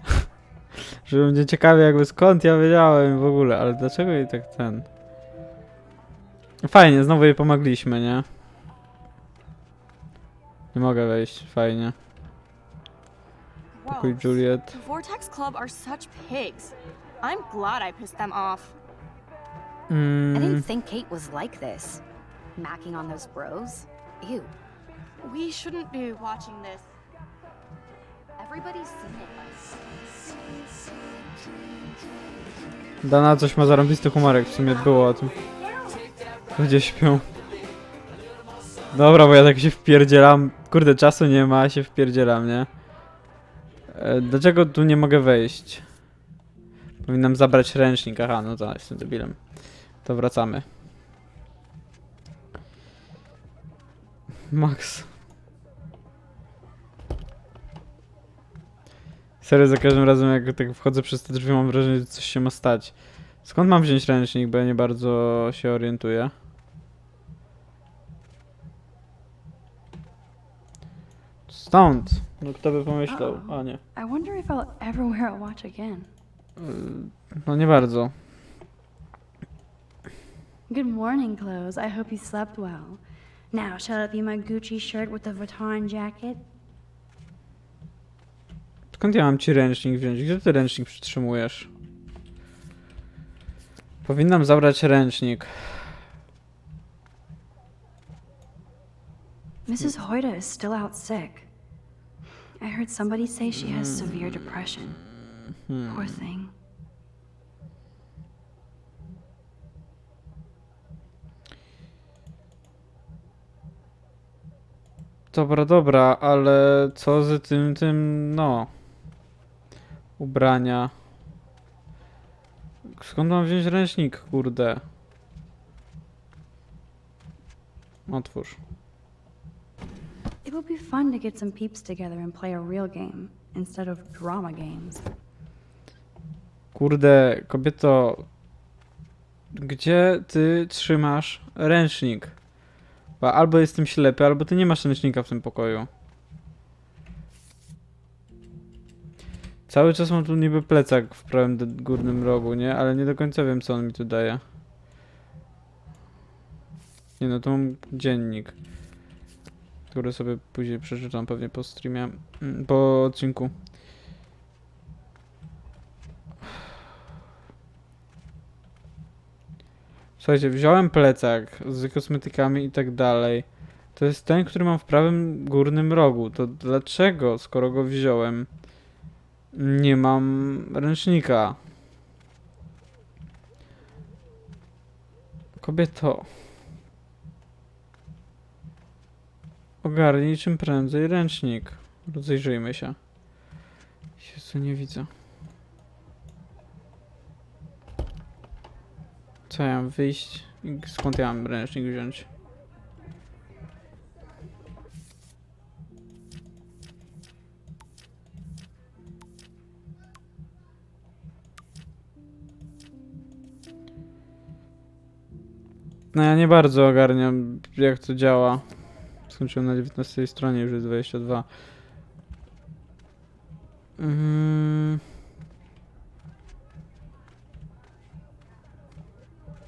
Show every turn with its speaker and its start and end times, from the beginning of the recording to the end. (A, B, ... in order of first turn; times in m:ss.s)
0:01.0-0:04.9 A
0:06.6-0:08.3 A
0:10.7-0:12.0 A
0:13.8-0:18.8 B
0:13.9-0:14.7 A
0:19.9-0:20.7 A
0:20.3-0:22.0 C
0:22.6-0:24.5 C
0:25.2-0:26.9 B
0:28.4-0:29.9 C
0:33.0-0:35.3 A
0:35.6-0:36.1 B
0:36.6-0:37.3 A
0:38.9-0:42.7 A
0:43.9-0:45.8 A
0:47.0-0:50.6 A
0:54.5-0:55.1 A
0:59.4-1:06.3 A
1:11.5-1:13.8 A
1:13.1-1:16.1 D
1:16.6-1:18.1 A
1:20.7-1:26.4 D
1:28.9-1:31.7 A
1:34.0-1:36.0 A
1:39.7-1:41.5 D
1:42.6-1:45.0 D
1:43.5-1:46.2 A
1:45.9-1:46.5 D
1:55.3-1:58.7 A
2:00.2-2:00.9 A
2:02.9-2:04.8 A
2:08.1-2:08.6 A
2:10.4-2:15.0 D
2:16.7-2:18.3 A
2:19.5-2:22.4 A
2:23.2-2:25.9 A
2:29.7-2:34.4 A
2:37.2-2:38.6 A
2:39.9-2:43.5 A
2:50.2-2:58.5 A
2:59.5-3:01.6 A
3:05.6-3:06.3 A
3:09.8-3:13.0 A
3:14.2-3:15.1 A
3:19.5-3:22.3 A
3:36.1-3:41.5 A
3:44.0-3:45.0 A